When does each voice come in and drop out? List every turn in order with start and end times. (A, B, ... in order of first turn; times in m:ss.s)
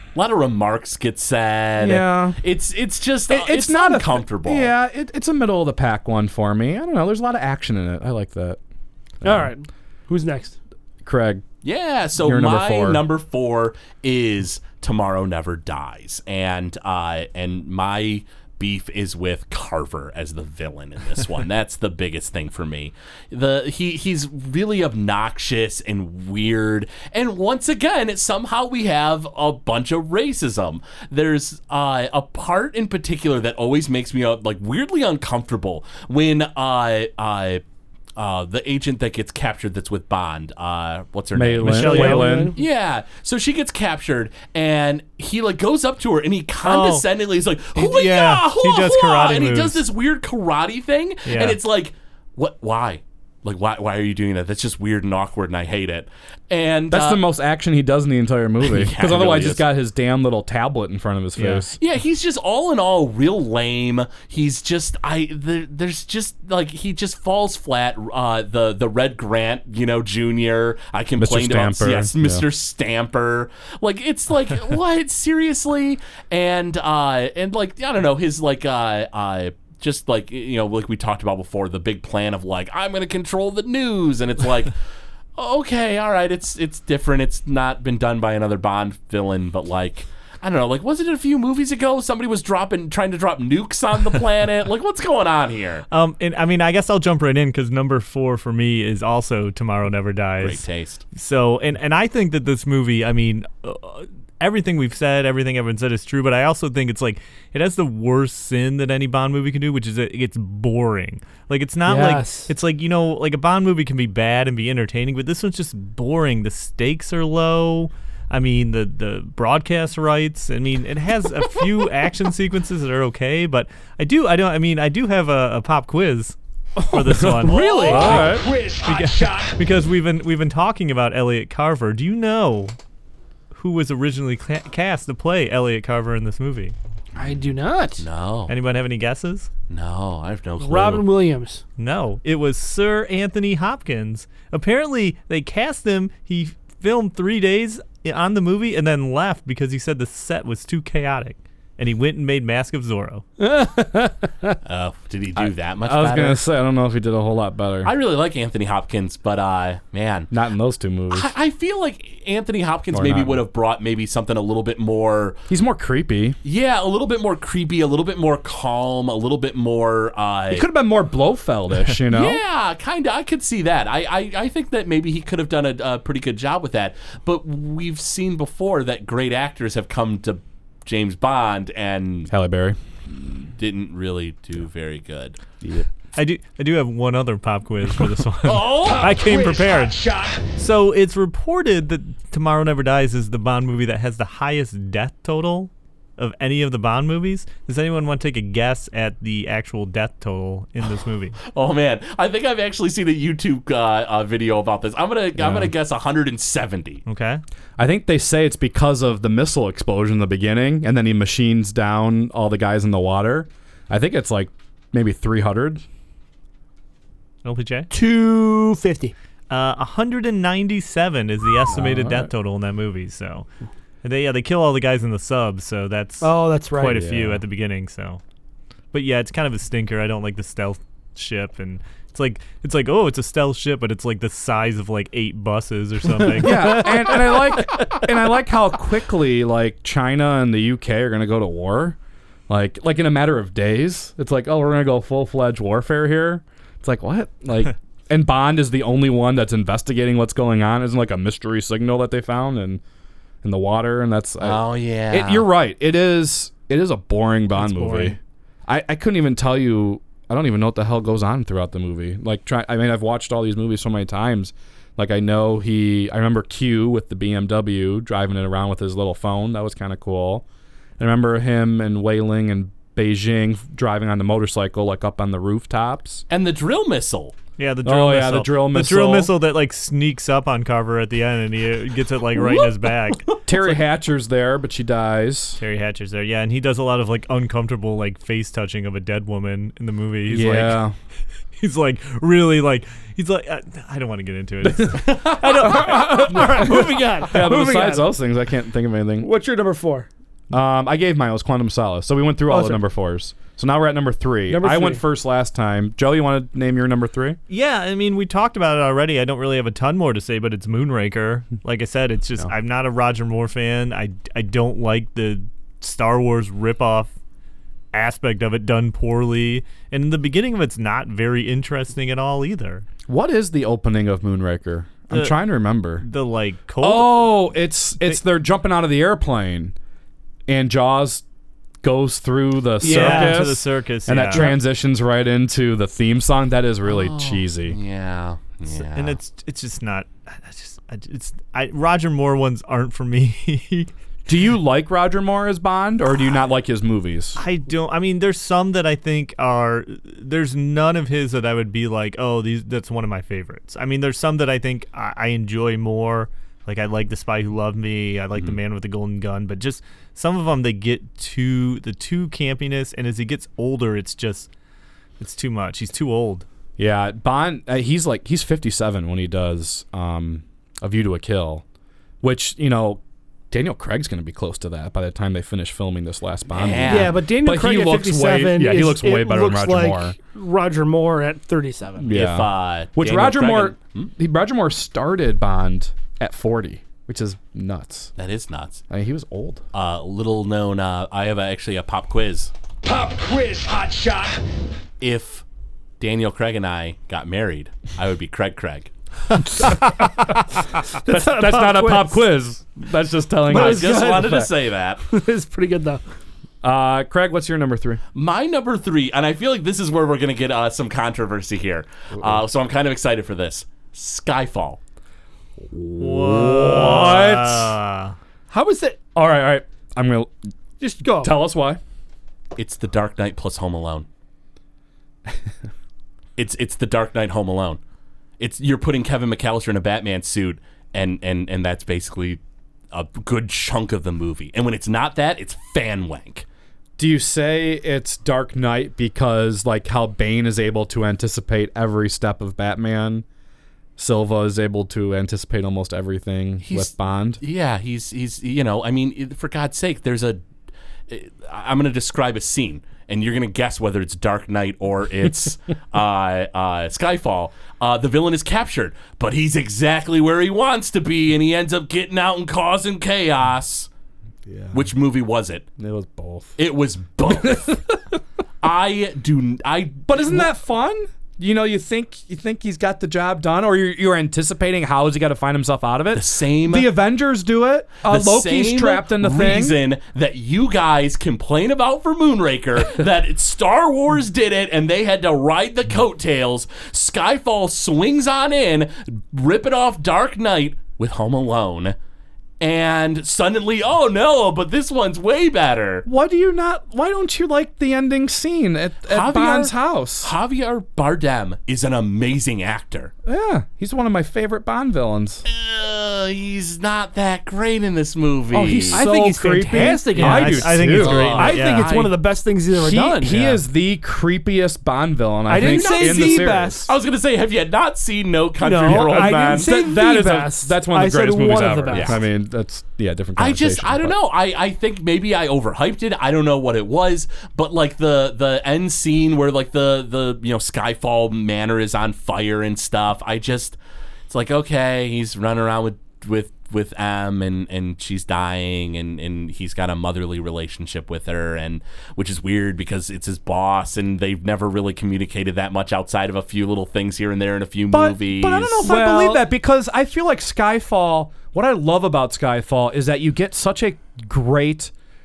0:00.1-0:04.7 A
0:01.8-0:02.4 B
0:03.3-0:08.6 B
0:09.2-0:09.5 B
0:09.2-0:10.6 C
0:11.0-0:11.4 B
0:11.6-0:37.6 A
0:12.2-0:13.0 B
0:38.2-0:57.2 A
0:41.3-0:42.5 B
0:41.6-0:42.2 D
0:41.7-0:42.6 C
0:46.6-0:47.0 D
0:47.7-0:49.8 D
0:51.2-0:51.6 D
0:56.9-1:01.8 B
0:58.6-0:59.6 A
1:01.4-1:01.7 D
1:01.8-1:24.7 A
1:11.2-1:12.4 B
1:25.4-1:35.8 A
1:35.9-2:06.4 D
1:40.4-1:41.0 A
1:51.8-1:52.5 C
2:06.8-2:08.2 C
2:06.9-2:12.7 D
2:07.4-2:09.6 E
2:07.9-2:08.4 B
2:13.5-2:16.7 D
2:17.2-2:18.0 C
2:18.0-2:18.5 A
2:18.5-2:19.5 D
2:19.7-2:21.0 A
2:20.6-2:21.6 C
2:21.8-2:33.2 D
2:33.4-2:34.6 C
2:34.6-2:36.4 A
2:35.4-2:37.9 B
2:37.8-2:40.3 A
2:40.3-2:41.3 B
2:41.1-2:45.4 A
2:42.9-2:43.4 B
2:45.5-2:46.4 B
2:46.4-2:50.6 A
2:50.5-2:52.4 B
2:52.1-3:02.3 A
3:02.3-3:02.8 B
3:03.1-3:05.4 A
3:05.6-3:05.9 B
3:06.2-3:10.0 D
3:08.4-3:09.1 A
3:08.8-3:10.5 E
3:10.5-3:21.4 D
3:21.5-3:27.0 A
3:25.4-3:25.7 B
3:27.1-3:27.4 D
3:27.8-3:35.8 B
3:37.4-3:37.9 D
3:37.9-3:39.1 C
3:39.5-3:43.4 D
3:41.7-3:42.3 B
3:44.0-3:48.2 D
3:46.2-3:47.0 C
3:46.8-3:47.4 B
3:48.9-3:57.9 D
3:56.4-4:02.0 B
4:02.5-4:12.8 B
4:13.4-4:30.4 B
4:14.4-4:15.5 A
4:17.6-4:18.2 C
4:31.0-4:36.2 B
4:36.3-4:37.3 A
4:37.6-4:43.3 D
4:37.8-4:39.3 B
4:43.4-4:45.6 B
4:45.6-4:50.8 D
4:50.3-4:50.9 B
4:51.6-4:56.9 D
4:54.6-4:59.3 B
4:55.4-4:58.1 C
4:59.2-5:00.1 C
5:00.5-5:07.4 B
5:02.5-5:02.8 C
5:04.5-5:05.0 C
5:07.5-5:17.1 D
5:17.9-5:22.8 D
5:23.1-5:26.0 B
5:25.1-5:25.4 D
5:26.0-5:27.5 D
5:26.8-5:29.7 B
5:30.5-5:31.2 B
5:31.8-5:37.8 B
5:32.8-5:33.4 C
5:32.8-5:34.5 D
5:36.8-5:39.2 A
5:38.8-5:43.9 D
5:44.3-5:47.4 B
5:47.4-6:04.5 D
6:05.2-6:06.4 D
6:06.8-6:11.6 B
6:12.2-6:20.2 B
6:16.5-6:17.2 A
6:16.9-6:22.1 C
6:22.0-6:28.1 B
6:22.1-6:24.1 A
6:28.2-6:28.8 A
6:28.9-6:29.6 B
6:29.7-6:32.5 A
6:32.8-6:34.4 E
6:35.0-6:35.4 A
6:36.0-6:38.9 A
6:41.0-6:44.5 B
6:41.0-6:42.2 C
6:43.4-6:45.0 A
6:43.5-6:44.4 C
6:45.1-6:46.0 C
6:46.6-6:48.0 B
6:48.1-6:54.8 A
6:52.2-6:52.4 B
6:55.6-6:57.7 B
6:56.0-6:58.1 D
6:58.5-6:59.0 C
6:59.1-7:00.3 B
7:00.8-7:01.4 C
7:01.2-7:01.8 B
7:02.6-7:04.1 A
7:06.4-7:07.8 A
7:08.4-7:12.4 A
7:12.9-7:16.4 A
7:17.0-7:23.2 B
7:24.0-7:27.4 B
7:26.6-7:30.4 A
7:31.1-7:43.9 A
7:44.5-7:44.9 B
7:44.7-7:45.6 A
7:45.8-7:46.6 B
7:46.6-7:47.8 A
7:47.3-7:47.9 B
7:48.6-7:50.5 A
7:50.1-7:59.8 B
7:56.1-7:56.9 A
7:58.0-8:12.0 A
8:12.6-8:16.0 A
8:16.0-8:20.3 B
8:19.1-8:23.1 A
8:23.2-8:25.4 B
8:25.4-8:29.0 A
8:28.5-8:31.4 B
8:28.9-8:33.6 C
8:30.1-8:32.0 D
8:30.9-8:32.1 A
8:32.7-8:36.9 B
8:35.5-8:36.9 C
8:35.5-8:39.7 A
8:38.6-8:42.2 C
8:38.8-8:44.2 B
8:41.9-8:42.2 A
8:43.4-8:53.8 A
8:54.3-9:08.9 A
9:07.9-9:14.9 B
9:08.8-9:09.4 C